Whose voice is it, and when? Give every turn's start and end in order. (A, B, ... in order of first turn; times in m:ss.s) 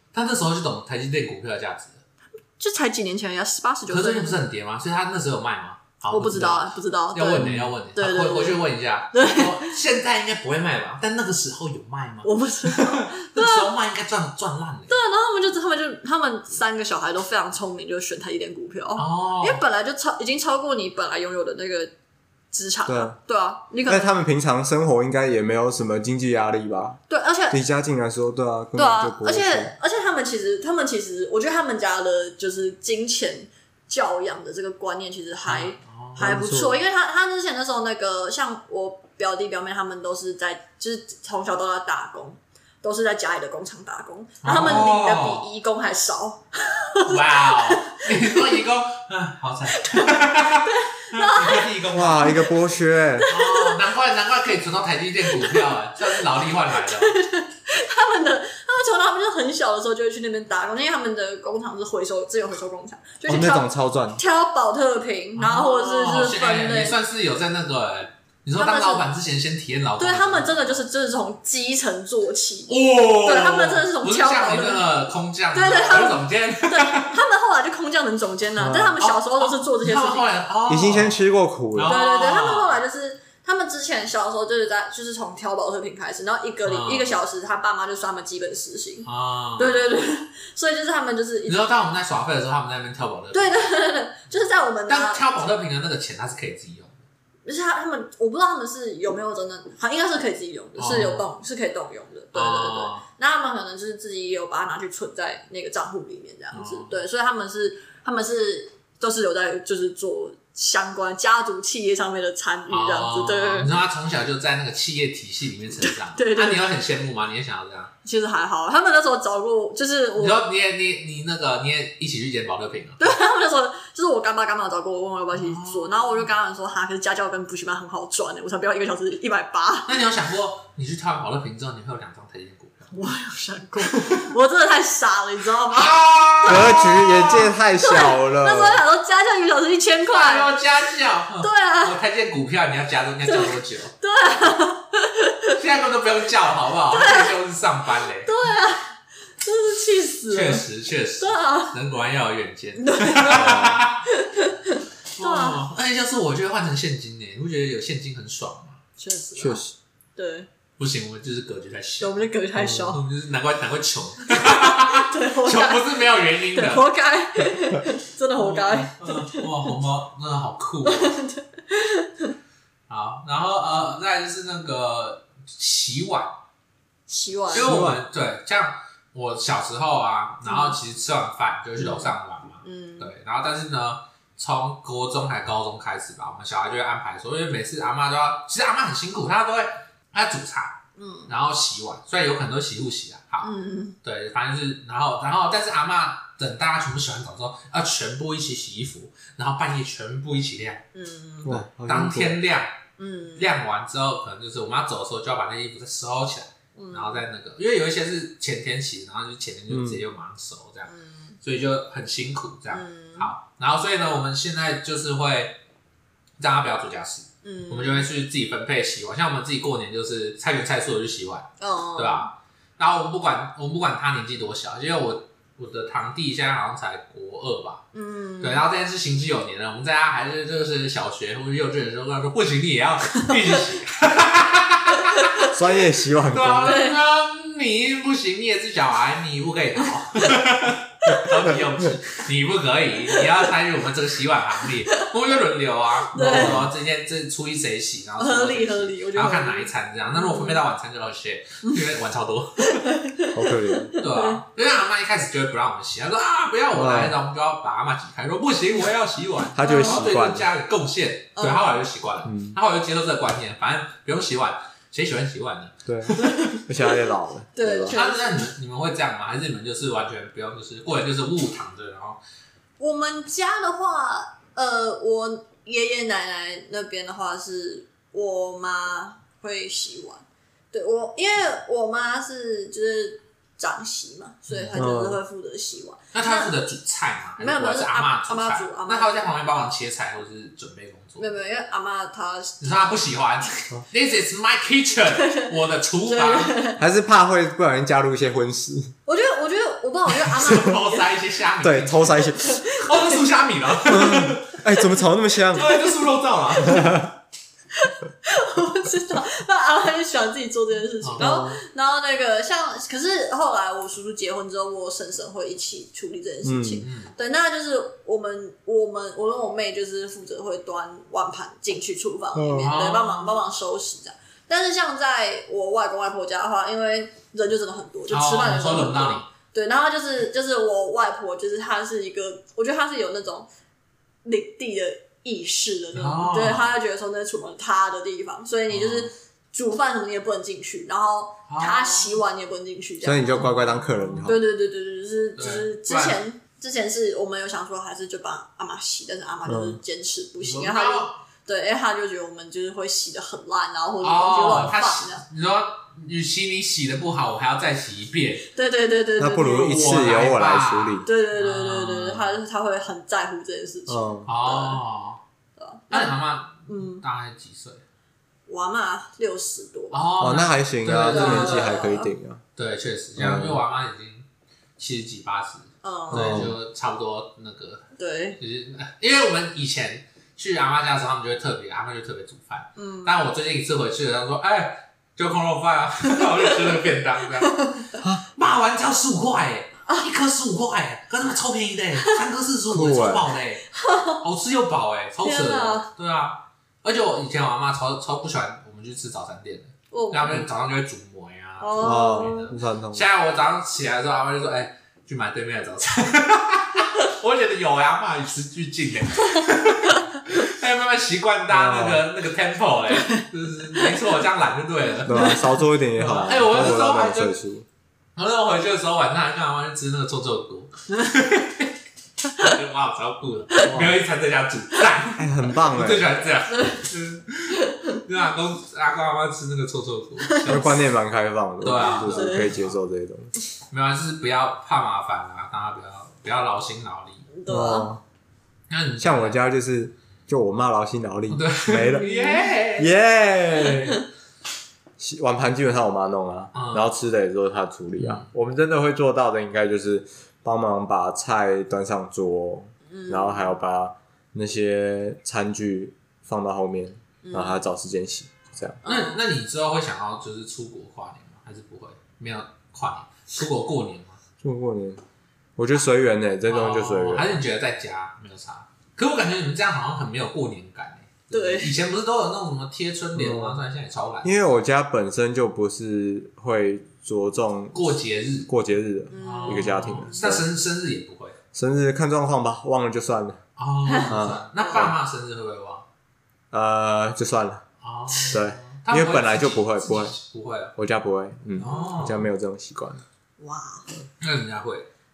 0:00.1-0:02.0 A
0:02.6-0:04.4 B
0:03.9-0:15.0 A
0:06.1-0:08.6 B
0:07.4-0:07.7 C
0:09.1-0:09.8 B
0:12.2-0:13.7 B
0:14.9-0:21.9 B
0:19.0-0:19.6 A
0:22.5-0:24.2 B
0:22.9-0:23.2 C
0:23.8-0:29.7 C
0:27.1-0:27.6 B
0:28.7-0:48.5 B
0:35.4-0:36.3 A
0:36.2-0:36.8 C
0:44.4-0:45.5 A
0:47.0-0:52.5 A
0:49.8-0:52.5 B
0:51.9-0:53.3 C
0:53.2-0:53.8 B
0:53.3-0:57.2 A
0:55.3-0:56.1 B
0:56.7-1:07.0 B
1:03.2-1:04.2 C
1:05.4-1:10.7 A
1:08.5-1:09.1 B
1:10.0-1:14.9 B
1:12.7-1:17.2 A
1:15.5-1:20.4 B
1:18.6-1:19.0 C
1:19.0-1:21.2 A
1:20.7-1:22.0 C
1:21.7-1:22.8 A
1:21.8-1:31.7 B
1:26.6-1:27.1 A
1:29.0-1:29.9 A
1:31.5-1:33.7 A
1:33.3-1:35.4 B
1:34.9-1:37.0 A
1:37.4-1:53.7 B
1:40.8-1:41.3 A
1:42.3-1:43.0 A
1:46.5-1:47.0 A
1:52.7-1:57.9 A
1:55.8-1:56.7 B
1:58.0-2:00.5 B
2:00.2-2:03.0 A
2:03.0-2:09.9 B
2:05.3-2:06.3 A
2:09.9-2:12.9 A
2:12.9-2:20.5 B
2:15.7-2:17.5 A
2:16.4-2:18.8 C
2:20.0-2:23.9 A
2:21.4-2:22.0 B
2:23.2-2:25.6 B
2:25.5-2:28.3 A
2:26.9-2:27.3 B
2:28.2-2:30.6 B
2:30.3-2:34.0 A
2:31.2-2:31.8 B
2:32.8-2:35.6 B
2:33.2-2:33.9 C
2:35.2-2:38.8 A
2:39.0-2:39.6 B
2:39.4-2:39.7 C
2:40.2-2:40.5 B
2:40.8-2:42.2 A
2:42.0-2:43.0 B
2:42.6-2:42.9 C
2:42.9-2:46.8 A
2:44.3-2:49.7 B
2:48.3-2:51.2 A
2:50.8-2:52.3 B
2:52.9-2:56.4 A
2:57.1-2:57.7 B
2:57.5-3:13.5 A
2:57.5-2:58.0 C
3:00.4-3:00.8 B
3:01.8-3:03.1 B
3:11.0-3:11.3 B
3:13.4-3:14.0 B
3:14.0-3:20.8 A
3:20.9-3:21.6 B
3:21.4-3:22.4 C
3:21.8-3:22.8 A
3:23.0-3:23.5 B
3:23.4-3:35.6 A
3:26.8-3:27.2 B
3:29.7-3:30.0 C
3:30.9-3:31.4 B
3:32.7-3:33.3 B
3:36.4-3:47.8 A
3:37.4-3:38.1 B
3:41.6-3:42.3 B
3:47.9-3:48.6 B
3:48.4-3:55.3 A
3:54.9-3:55.5 B
3:55.5-3:56.8 C
3:56.3-4:12.9 A
3:56.6-3:57.0 B
4:00.2-4:00.4 B
4:03.1-4:03.4 B
4:06.0-4:06.6 B
4:06.2-4:06.7 C
4:08.2-4:10.6 B
4:12.6-4:14.4 B
4:13.3-4:13.9 C
4:14.0-4:26.4 A
4:16.7-4:17.2 C
4:19.5-4:20.5 C
4:19.6-4:20.0 B
4:21.4-4:21.8 B
4:22.2-4:22.6 C
4:25.8-4:28.0 C
4:26.1-4:27.0 B
4:27.5-4:28.5 B
4:27.9-4:32.2 A
4:32.8-4:46.5 B
4:44.5-4:44.8 A
4:44.7-4:45.2 C
4:46.1-4:51.2 A
4:47.4-4:49.3 B
4:51.2-4:53.0 B
4:52.6-4:56.6 A
4:55.2-4:55.5 B
4:56.0-4:56.8 B
4:56.8-4:58.9 C
4:59.0-5:01.1 B
5:00.3-5:04.6 A
5:01.6-5:02.6 C
5:02.4-5:03.2 B
5:03.8-5:05.7 C
5:05.5-5:07.1 A
5:05.5-5:06.0 B
5:06.6-5:07.1 C
5:07.8-5:33.5 B
5:11.0-5:11.4 A
5:11.2-5:11.6 C
5:16.4-5:16.8 C
5:16.8-5:17.1 A
5:22.3-5:22.7 C
5:22.5-5:23.4 A
5:28.1-5:29.3 A
5:34.2-5:43.5 B
5:35.9-5:36.7 A
5:38.7-5:39.1 A
5:41.5-5:42.2 A
5:43.0-5:44.4 C
5:43.4-5:44.3 A
5:44.2-5:55.2 B
5:45.4-5:46.2 A
5:49.4-5:49.8 C
5:50.4-5:51.2 A
5:54.0-5:58.4 A
5:58.5-5:59.9 B
5:59.2-6:01.1 C
5:59.6-6:02.4 A
6:01.0-6:04.8 B
6:03.9-6:04.3 C
6:04.3-6:05.2 A
6:05.6-6:07.0 B
6:05.9-6:07.8 A
6:08.5-6:10.0 B
6:09.9-6:11.8 A
6:10.2-6:12.4 C
6:11.1-6:12.1 B
6:12.6-6:14.2 A
6:13.2-6:13.6 C
6:14.8-6:17.8 A
6:15.8-6:16.5 B
6:16.1-6:16.5 C
6:18.0-6:18.4 B
6:18.4-6:27.7 A
6:22.8-6:23.2 B
6:26.1-6:26.7 B
6:27.4-6:28.0 B
6:28.3-6:33.7 A
6:32.7-6:33.3 C
6:33.7-6:34.2 B
6:34.2-6:57.3 A
6:35.2-6:35.9 B
6:39.9-6:40.4 B
6:41.6-6:42.5 B
6:41.8-6:43.1 C
6:51.5-6:52.0 C
6:52.9-6:53.9 B
6:55.0-6:57.6 C
6:55.1-6:55.6 B
6:58.2-7:01.7 A
7:02.4-7:10.8 A
7:03.6-7:04.0 C
7:05.2-7:06.1 C
7:06.5-7:06.8 B
7:07.6-7:08.0 B
7:10.2-7:10.7 B
7:10.5-7:13.3 C
7:11.6-7:12.8 A
7:11.9-7:12.5 B
7:13.7-7:17.3 A
7:17.3-7:17.9 B
7:17.5-7:18.0 C
7:18.7-7:19.4 A
7:19.0-7:22.1 C
7:21.3-7:22.9 A
7:21.9-7:22.5 B
7:22.8-7:23.9 C
7:23.6-7:23.9 A
7:25.0-7:38.8 C
7:26.5-7:26.9 A
7:28.0-7:28.3 A
7:32.9-7:33.5 B
7:37.2-7:37.6 B
7:38.8-7:39.2 B
7:38.8-7:44.2 A
7:44.4-7:45.0 C
7:45.6-7:47.4 C
7:46.5-7:54.3 A
7:51.3-7:51.7 B
7:53.1-7:53.6 C
7:54.2-7:57.9 C
7:57.7-7:58.5 A
7:58.4-8:00.5 C
7:59.1-8:00.2 B
7:59.2-8:01.4 A
8:01.5-8:03.4 C
8:03.6-8:05.8 A
8:03.8-8:04.1 B
8:04.1-8:04.9 C
8:06.5-8:07.6 C
8:07.8-8:10.7 A
8:08.3-8:10.1 C
8:10.8-8:13.0 C
8:11.5-8:12.3 A
8:11.6-8:12.1 B
8:13.4-8:13.9 B
8:14.2-8:14.9 A